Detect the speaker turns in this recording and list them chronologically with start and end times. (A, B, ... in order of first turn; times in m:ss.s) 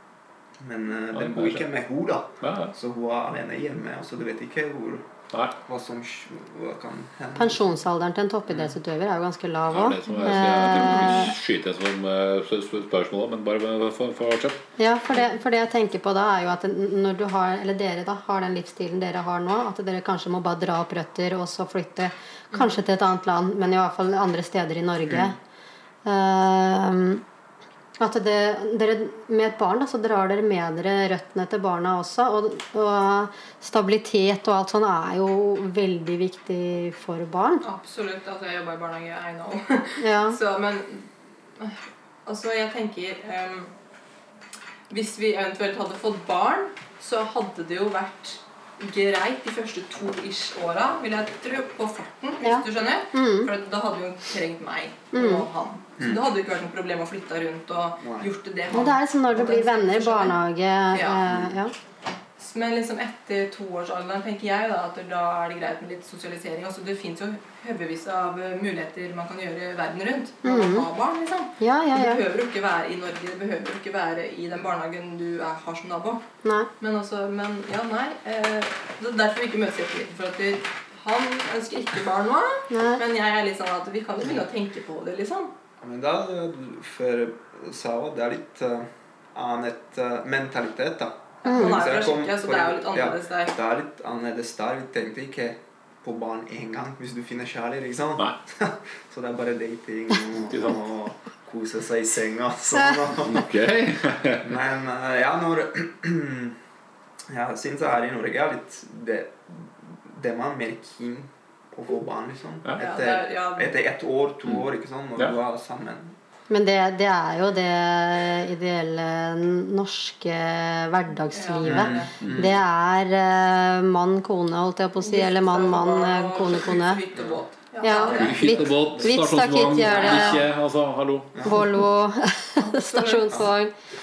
0:00.6-0:05.0 A
0:01.1-0:01.7 B
0:02.4-0:02.7 B
0:05.6-0:07.7 A
0:07.4-0:11.3 C
0:09.7-0:14.6 B
0:14.8-0:25.4 C
0:26.0-0:27.2 C
0:28.0-0:37.6 C
0:37.6-0:43.7 D
0:40.0-0:40.4 C
0:44.9-1:00.4 D
0:52.4-0:53.5 C
0:55.1-0:55.4 C
0:58.0-0:58.3 A
0:58.7-1:01.7 C
1:00.9-1:01.2 D
1:01.3-1:01.5 A
1:02.4-1:16.2 D
1:10.4-1:10.9 C
1:11.6-1:12.2 C
1:16.4-1:16.7 C
1:16.8-1:25.5 D
1:22.7-1:23.0 C
1:25.8-1:43.5 A
1:31.4-1:33.6 D
1:31.4-1:31.8 C
1:40.4-1:40.8 B
1:43.2-1:44.5 B
1:44.4-1:46.6 A
1:47.3-1:56.1 A
1:52.8-1:53.8 D
1:56.5-2:07.0 C
2:01.3-2:02.1 D
2:01.6-2:02.5 A
2:02.2-2:02.5 B
2:05.0-2:08.6 D
2:07.8-2:10.4 C
2:08.1-2:09.1 A
2:08.1-2:11.5 B
2:09.9-2:10.4 D
2:11.3-2:11.7 A
2:11.4-2:13.7 C
2:12.6-2:13.4 D